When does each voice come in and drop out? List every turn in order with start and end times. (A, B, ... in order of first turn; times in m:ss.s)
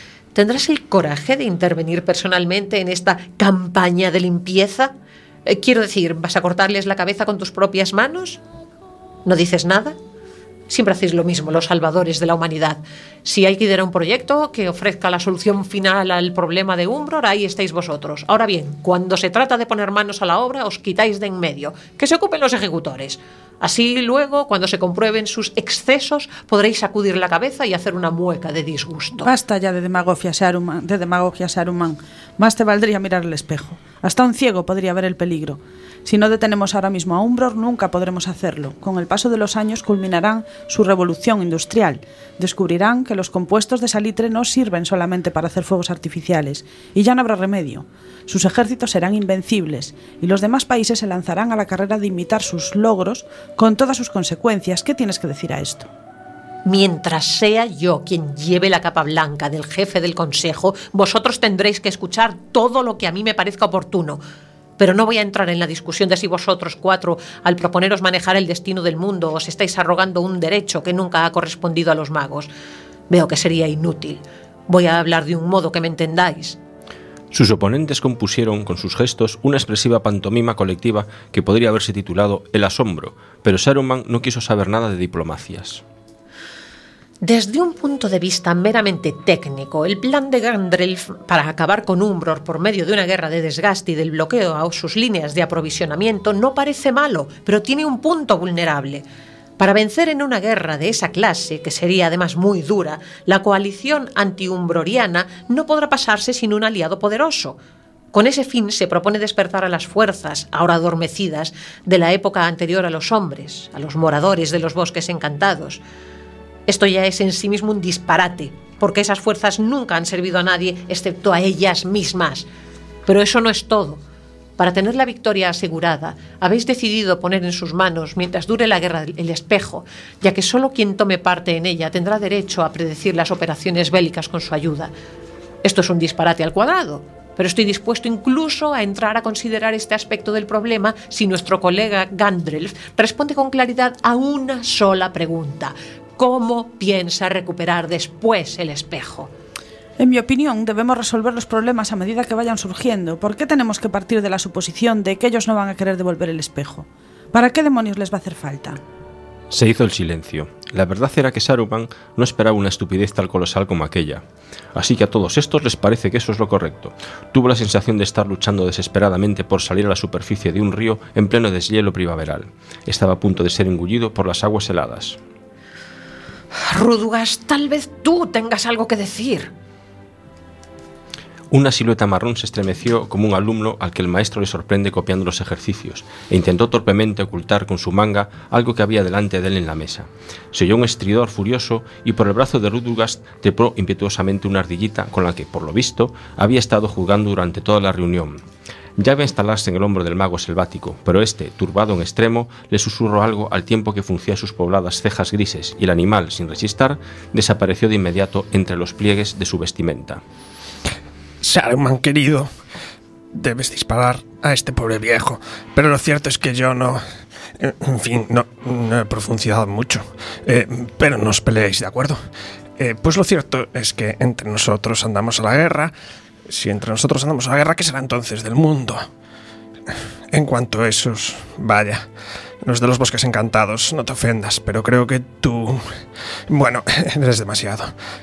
0:00.4-0:04.9 A
0:05.4-0:08.4 A
0:09.3-0:10.0 A
0:10.7-0:29.3 A
0:29.2-0:55.9 B
0:56.6-1:04.2 A
1:04.8-1:12.5 A
1:13.1-1:16.6 A
1:17.3-1:25.8 C
1:27.2-1:39.0 A
1:39.6-1:47.6 A
1:48.1-1:55.8 A
1:56.7-2:02.4 A
2:03.1-2:04.0 A
2:04.6-2:14.9 A
2:15.6-2:29.3 A
2:30.0-2:38.8 B
2:39.5-2:44.2 C
2:44.8-2:55.2 C
2:56.7-2:59.5 A
3:01.5-3:18.4 C
3:19.0-3:30.2 C
3:31.4-3:32.5 D
3:33.4-3:37.0 D
3:37.6-3:42.2 D
3:42.8-3:45.9 D
3:46.5-3:49.0 D
3:50.3-3:52.0 D
3:52.6-3:55.8 D
3:56.5-3:57.9 D